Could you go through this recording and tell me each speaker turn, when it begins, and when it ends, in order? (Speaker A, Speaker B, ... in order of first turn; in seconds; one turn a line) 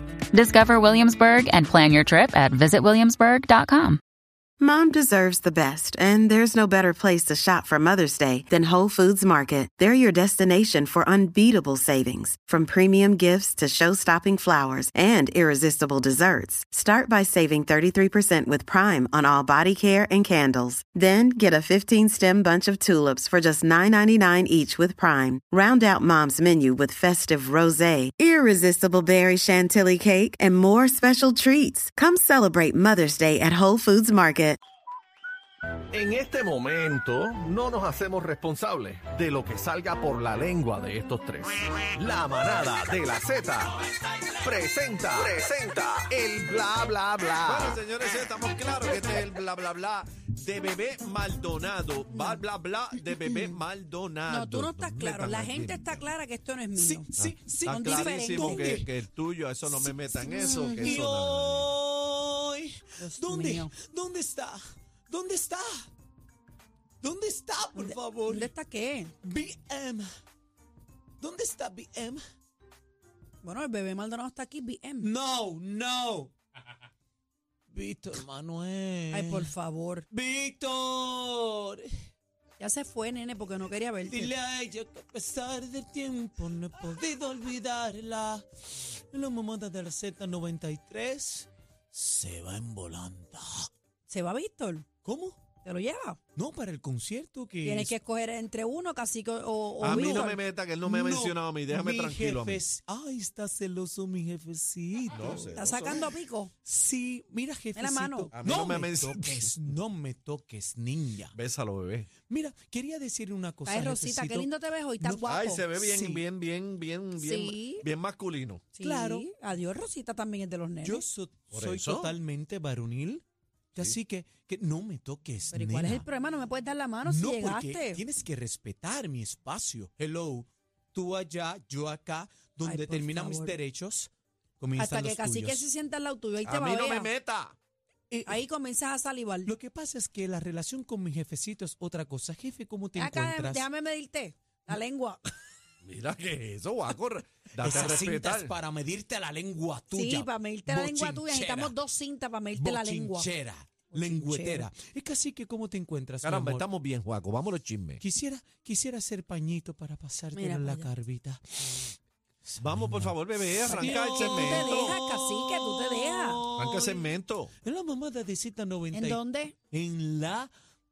Speaker A: 0.3-4.0
Speaker B: 4.6-34.6
Speaker C: 35.9-43.7
Speaker C: 44.4-47.8
Speaker D: 47.4-56.1
Speaker E: 52.1-52.4
Speaker E: 53.2-53.5
Speaker E: 54.2-57.1
Speaker F: 56.7-58.9
Speaker D: 57.1-61.7
Speaker E: 57.7-58.9
Speaker E: 60.1-61.0
Speaker F: 60.1-65.9
Speaker E: 63.0-63.7
Speaker F: 67.0-68.5
Speaker E: 67.7-69.1
Speaker F: 69.2-70.1
Speaker F: 71.2-72.2
Speaker E: 73.4-75.1
Speaker F: 75.0-76.3
Speaker F: 77.7-79.5
Speaker E: 79.1-80.0
Speaker F: 80.1-81.9
Speaker E: 82.6-84.3
Speaker F: 84.1-93.7
Speaker E: 94.1-94.9
Speaker F: 95.0-95.4
Speaker E: 95.6-96.2
Speaker F: 96.3-98.0
Speaker E: 97.6-100.4
Speaker D: 99.8-102.6
Speaker F: 99.8-106.0
Speaker D: 105.1-106.1
Speaker E: 105.5-106.5
Speaker F: 106.6-111.3
Speaker E: 107.7-108.3
Speaker D: 108.3-109.5
Speaker D: 111.3-112.1
Speaker F: 112.2-114.5
Speaker E: 113.6-115.7
Speaker F: 115.0-116.2
Speaker D: 115.2-118.7
Speaker E: 117.2-117.8
Speaker E: 118.7-121.0
Speaker F: 118.8-119.3
Speaker F: 120.8-126.0
Speaker D: 121.5-122.1
Speaker E: 125.5-128.0
Speaker F: 127.0-135.6
Speaker E: 132.6-133.6
Speaker E: 134.8-137.1
Speaker D: 136.4-137.6
Speaker F: 138.1-138.4
Speaker E: 138.2-139.5
Speaker F: 139.4-143.7
Speaker E: 142.9-145.2
Speaker D: 145.8-148.5
Speaker F: 147.6-151.8
Speaker E: 149.9-153.3
Speaker F: 152.5-156.7
Speaker E: 153.9-154.7
Speaker D: 156.2-158.0
Speaker F: 158.0-169.2
Speaker E: 160.3-160.9
Speaker D: 162.6-165.0
Speaker E: 163.7-166.4
Speaker D: 166.5-167.5
Speaker E: 168.9-169.5
Speaker F: 169.7-170.5